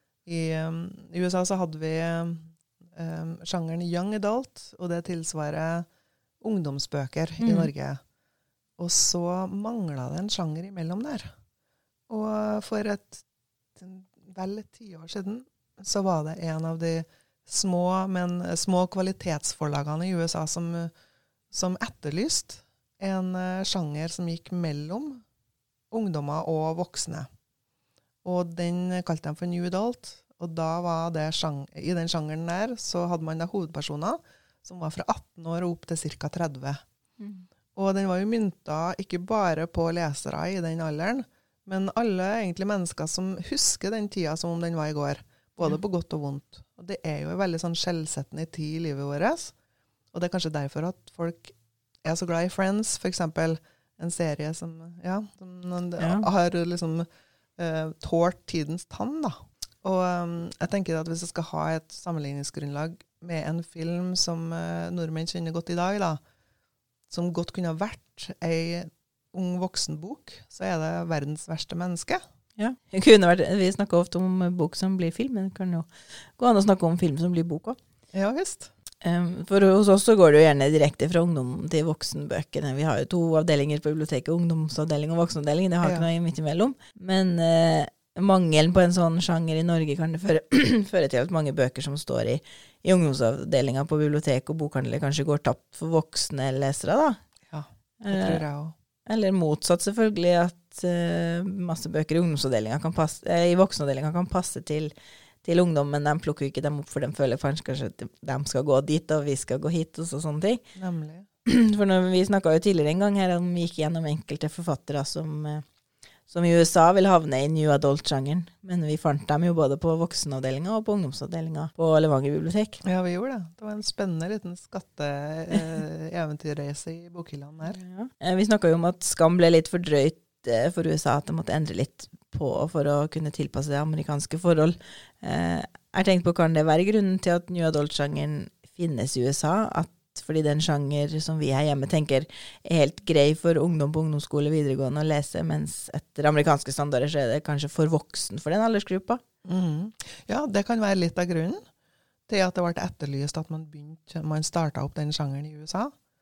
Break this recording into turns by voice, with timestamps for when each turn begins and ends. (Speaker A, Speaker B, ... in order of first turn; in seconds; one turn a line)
Speaker A: 0.2-5.9
Speaker A: 6.4-8.0
Speaker B: 7.4-7.7
Speaker A: 8.8-11.3
Speaker A: 12.1-13.2
Speaker A: 13.7-20.9
Speaker A: 21.5-25.2
Speaker A: 25.9-27.3
Speaker A: 28.2-36.8
Speaker B: 37.2-37.4
Speaker A: 37.7-49.5
Speaker A: 50.1-51.5
Speaker A: 52.0-57.1
Speaker B: 56.0-56.3
Speaker A: 57.6-66.2
Speaker A: 67.1-72.2
Speaker B: 72.6-77.8
Speaker A: 78.1-78.7
Speaker B: 79.0-97.2
Speaker A: 85.8-86.1
Speaker A: 97.5-98.7
Speaker B: 98.0-98.4
Speaker B: 99.0-104.9
Speaker B: 105.4-110.6
Speaker A: 110.7-111.3
Speaker B: 111.4-115.6
Speaker B: 116.3-122.8
Speaker A: 122.8-127.8
Speaker B: 127.7-149.2
Speaker A: 149.4-151.6
Speaker A: 152.3-155.9